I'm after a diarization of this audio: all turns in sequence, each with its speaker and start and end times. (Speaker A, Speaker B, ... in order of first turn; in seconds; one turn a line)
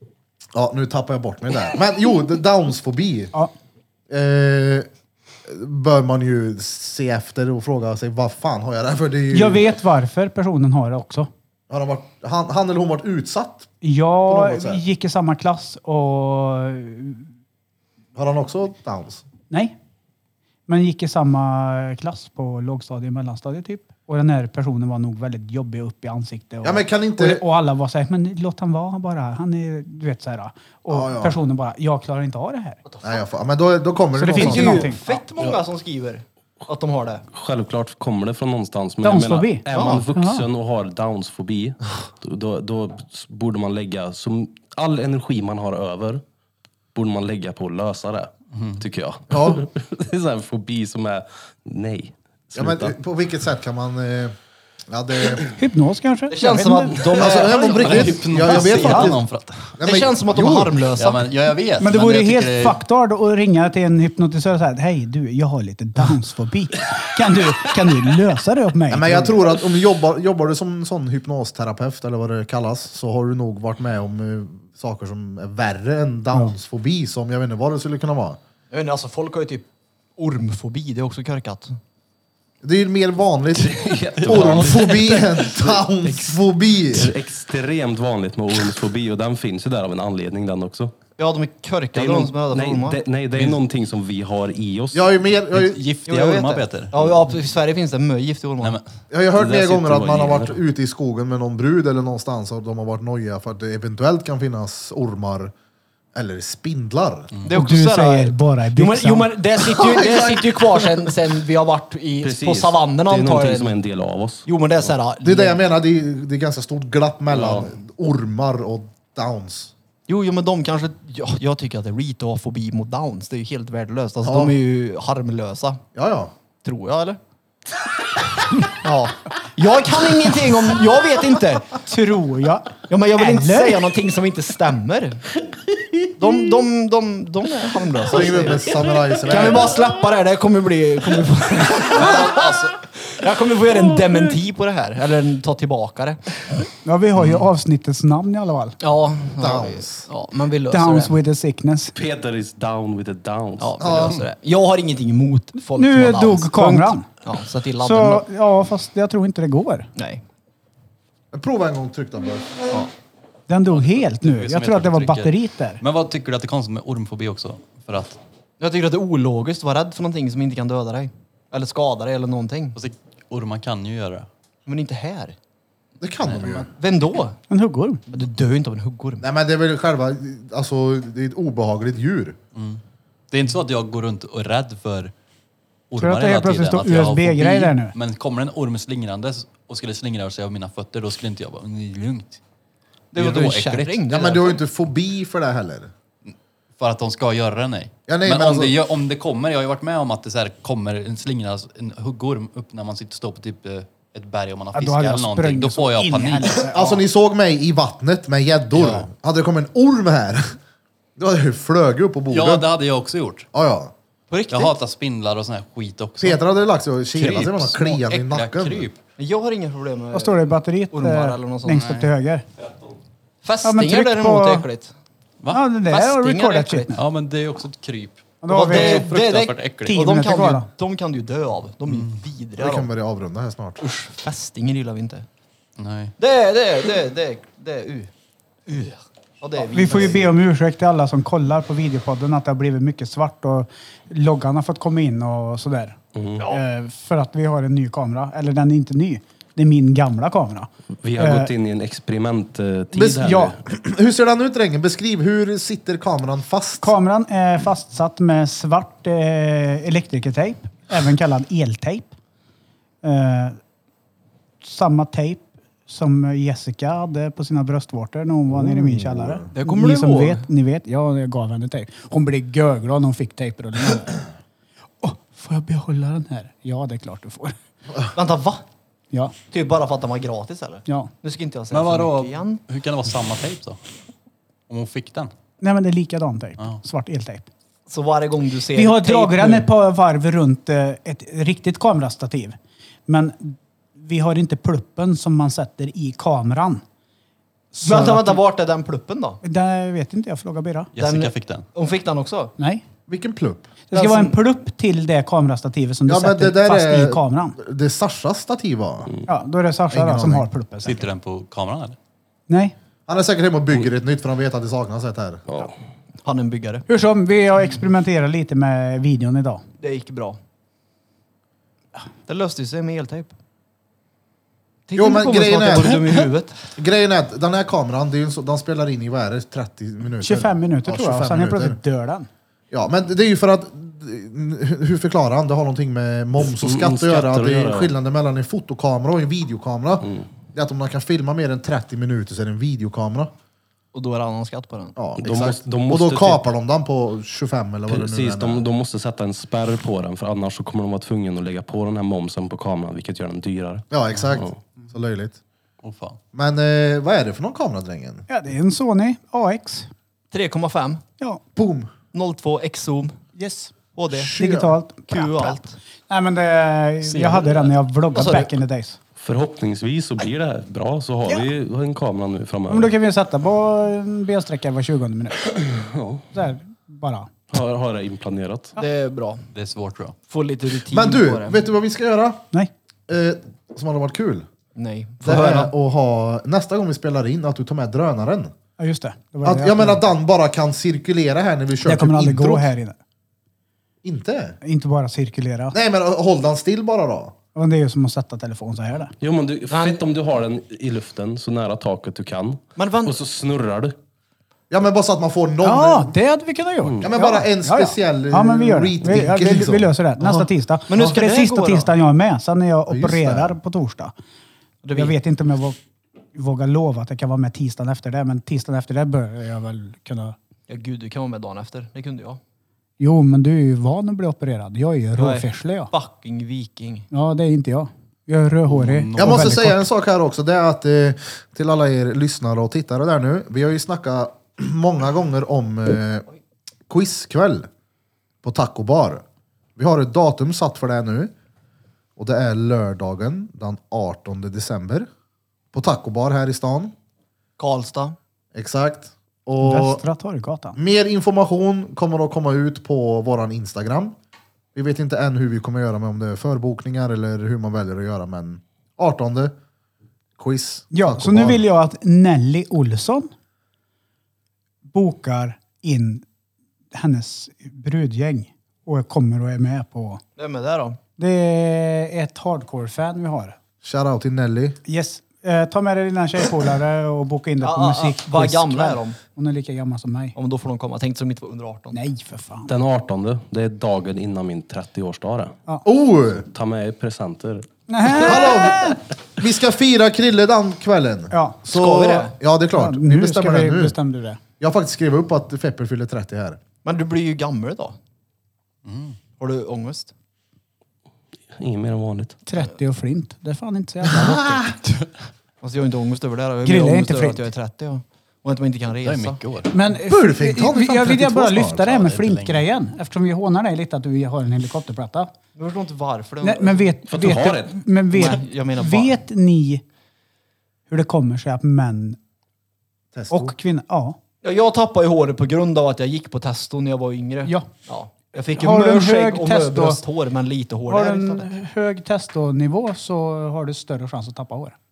Speaker A: 0.5-3.3
Speaker A: 4.1-4.9
Speaker A: 5.5-9.7
Speaker B: 9.3-11.3
Speaker A: 11.7-13.7
Speaker B: 13.8-17.3
Speaker A: 14.3-14.8
Speaker A: 18.2-19.2
Speaker B: 19.5-19.8
Speaker B: 20.7-32.8
Speaker A: 26.6-27.4
Speaker A: 30.9-31.4
Speaker C: 32.9-33.2
Speaker A: 33.0-34.9
Speaker B: 34.1-35.1
Speaker C: 34.3-37.3
Speaker D: 37.3-46.2
Speaker B: 39.0-40.5
Speaker C: 39.7-40.0
Speaker D: 46.9-53.0
Speaker A: 49.3-49.6
Speaker A: 52.6-54.4
Speaker A: 54.9-55.4
Speaker B: 55.5-57.0
Speaker C: 56.3-58.2
Speaker A: 57.2-59.2
Speaker E: 57.2-59.7
Speaker B: 58.3-59.1
Speaker A: 59.8-60.7
Speaker C: 59.8-61.3
Speaker E: 60.9-62.8
Speaker B: 61.8-69.3
Speaker A: 68.9-78.4
Speaker C: 78.7-79.7
Speaker C: 80.2-81.8
Speaker A: 82.6-87.1
Speaker D: 83.6-85.0
Speaker E: 84.2-85.4
Speaker C: 84.7-86.1
Speaker D: 86.9-91.0
Speaker C: 91.2-93.0
Speaker D: 91.9-95.1
Speaker E: 93.3-93.6
Speaker A: 94.9-95.8
Speaker E: 95.5-97.2
Speaker C: 96.1-98.8
Speaker A: 99.1-105.5
Speaker D: 99.4-100.6
Speaker A: 106.1-107.3
Speaker C: 107.5-113.8
Speaker B: 107.5-109.3
Speaker A: 109.7-111.1
Speaker D: 112.2-114.5
Speaker C: 114.5-115.6
Speaker A: 115.2-119.7
Speaker D: 117.3-117.7
Speaker C: 120.1-125.8
Speaker A: 124.2-124.5
Speaker A: 126.0-126.3
Speaker C: 126.6-127.2
Speaker C: 128.6-131.8
Speaker B: 131.8-133.8
Speaker C: 132.9-135.3
Speaker C: 136.2-138.7
Speaker A: 138.1-139.8
Speaker C: 139.3-146.4
Speaker E: 141.9-142.8
Speaker B: 146.8-148.8
Speaker C: 148.8-151.2
Speaker A: 149.4-150.1
Speaker B: 150.7-151.9
Speaker D: 151.9-153.9
Speaker C: 153.6-158.3
Speaker A: 153.8-154.2
Speaker B: 155.8-157.1
Speaker B: 157.8-159.9
Speaker C: 159.9-160.2
Speaker A: 161.3-162.5
Speaker B: 163.5-165.8
Speaker E: 163.7-168.2
Speaker C: 168.6-172.8
Speaker E: 172.8-174.3
Speaker C: 174.7-175.3
Speaker A: 176.0-176.7
Speaker C: 176.4-177.4
Speaker B: 177.5-178.0
Speaker C: 178.1-179.3
Speaker A: 179.2-182.4
Speaker E: 182.5-185.1
Speaker E: 185.9-192.4
Speaker B: 186.0-187.9
Speaker C: 193.1-194.6
Speaker E: 193.2-194.0
Speaker A: 194.1-195.9
Speaker E: 196.2-206.7
Speaker A: 198.1-198.8
Speaker B: 204.7-207.0
Speaker A: 206.7-210.6
Speaker E: 208.7-209.1
Speaker A: 211.2-212.7
Speaker E: 212.3-213.5
Speaker A: 213.5-213.9
Speaker C: 214.3-214.8
Speaker E: 214.5-216.4
Speaker A: 216.2-218.9
Speaker E: 217.1-219.0
Speaker C: 219.2-221.9
Speaker B: 220.1-222.4
Speaker E: 221.7-222.1
Speaker C: 223.4-224.9
Speaker B: 223.6-224.7
Speaker B: 225.5-226.9
Speaker C: 225.9-227.0
Speaker E: 226.9-230.0
Speaker B: 228.4-229.1
Speaker C: 228.5-232.9
Speaker B: 229.8-230.7
Speaker E: 231.9-232.2
Speaker A: 232.6-233.8
Speaker C: 233.8-235.3
Speaker E: 235.8-236.1
Speaker C: 236.2-238.1
Speaker C: 238.7-240.3
Speaker B: 239.7-251.5
Speaker D: 246.2-246.4
Speaker D: 251.0-253.6
Speaker A: 252.9-256.9
Speaker B: 253.2-253.5
Speaker B: 256.8-262.1
Speaker B: 263.0-263.6
Speaker B: 264.6-274.2
Speaker A: 268.5-269.5
Speaker C: 269.5-270.5
Speaker B: 275.0-277.6
Speaker C: 278.1-278.6
Speaker C: 279.5-282.6
Speaker E: 281.7-283.8
Speaker E: 284.7-285.3
Speaker B: 285.6-287.4
Speaker C: 287.9-289.7
Speaker B: 288.8-292.6
Speaker B: 293.1-296.8
Speaker B: 297.7-298.4
Speaker C: 297.8-299.4
Speaker B: 299.4-300.9
Speaker E: 300.9-301.7
Speaker C: 301.0-302.5
Speaker B: 302.6-302.8
Speaker A: 303.1-303.7
Speaker B: 303.9-307.6
Speaker C: 303.9-304.4
Speaker A: 306.1-309.1
Speaker B: 309.3-311.1
Speaker A: 309.9-310.5
Speaker E: 310.8-312.0
Speaker B: 312.5-312.8
Speaker A: 313.1-315.6
Speaker D: 315.5-315.7
Speaker C: 316.2-316.9
Speaker B: 316.9-319.6
Speaker C: 319.8-320.4
Speaker C: 322.3-323.3
Speaker C: 324.9-326.6
Speaker A: 324.9-331.8
Speaker B: 330.2-332.3
Speaker A: 332.7-343.3
Speaker D: 336.4-337.9
Speaker D: 340.0-340.3
Speaker C: 343.9-344.9
Speaker A: 344.9-348.6
Speaker D: 345.2-346.4
Speaker D: 347.9-354.6
Speaker A: 353.9-355.4
Speaker E: 354.1-354.4
Speaker E: 355.8-356.2
Speaker A: 356.3-358.2
Speaker B: 358.3-359.9
Speaker C: 360.3-361.0
Speaker A: 361.6-361.9
Speaker C: 362.1-363.2
Speaker B: 363.4-363.7
Speaker C: 363.9-364.4
Speaker A: 364.1-364.8
Speaker B: 364.3-369.0
Speaker C: 365.1-365.8
Speaker E: 367.1-367.7
Speaker C: 368.1-368.5
Speaker D: 369.2-372.9
Speaker B: 372.7-375.6
Speaker D: 375.7-376.3
Speaker B: 376.3-377.3
Speaker D: 377.5-378.8
Speaker C: 378.8-379.4
Speaker E: 379.5-380.2
Speaker C: 380.3-381.6
Speaker A: 380.9-382.4
Speaker A: 383.1-384.4
Speaker C: 384.8-385.7
Speaker A: 385.2-388.5
Speaker B: 388.8-390.0
Speaker A: 389.4-392.7
Speaker B: 391.8-393.0
Speaker A: 394.0-394.6
Speaker B: 394.6-395.8
Speaker A: 395.7-397.3
Speaker B: 397.6-399.1
Speaker D: 399.2-403.9
Speaker C: 399.7-400.0
Speaker C: 402.8-403.2
Speaker A: 404.7-406.2
Speaker B: 405.6-414.1
Speaker D: 406.8-407.1
Speaker A: 407.0-411.1
Speaker C: 410.9-411.9
Speaker A: 412.9-413.6
Speaker C: 414.8-415.2
Speaker B: 414.9-415.8
Speaker B: 416.4-420.4
Speaker C: 420.7-422.4
Speaker B: 423.0-425.9
Speaker C: 425.2-427.1
Speaker B: 427.1-429.9
Speaker E: 428.7-429.6
Speaker A: 429.2-436.3
Speaker A: 436.9-437.7
Speaker A: 438.4-439.2
Speaker A: 439.8-441.3
Speaker A: 442.2-445.1
Speaker A: 445.7-446.9
Speaker C: 447.6-448.2
Speaker A: 448.6-450.0
Speaker B: 449.6-450.8
Speaker A: 450.8-454.1
Speaker A: 454.7-459.5
Speaker A: 460.4-461.6
Speaker B: 460.9-463.3
Speaker B: 464.9-466.2
Speaker B: 466.9-470.2
Speaker C: 470.4-471.0
Speaker B: 471.2-473.6
Speaker A: 473.8-474.8
Speaker B: 474.9-480.4
Speaker C: 477.6-479.2
Speaker C: 480.4-482.0
Speaker B: 481.9-482.7
Speaker D: 482.7-485.6
Speaker A: 485.9-486.4
Speaker D: 486.4-488.2
Speaker B: 487.9-489.0
Speaker A: 488.2-494.0
Speaker B: 491.3-491.6
Speaker C: 491.7-492.4
Speaker B: 492.7-494.4
Speaker A: 494.6-496.6
Speaker C: 496.8-497.9
Speaker E: 498.9-499.2
Speaker C: 499.4-500.1
Speaker D: 501.5-502.4
Speaker B: 502.4-504.6
Speaker A: 504.0-504.7
Speaker C: 504.1-504.6
Speaker C: 505.6-509.4
Speaker B: 506.6-507.4
Speaker E: 509.0-509.7
Speaker B: 509.7-515.3
Speaker A: 510.1-512.1
Speaker E: 511.9-512.7
Speaker C: 515.6-517.0
Speaker B: 516.4-519.8
Speaker D: 517.1-517.8
Speaker C: 518.1-519.1
Speaker B: 520.9-522.2
Speaker A: 523.1-523.5
Speaker B: 523.3-524.2
Speaker C: 524.4-531.5
Speaker B: 528.6-530.0
Speaker B: 530.9-534.8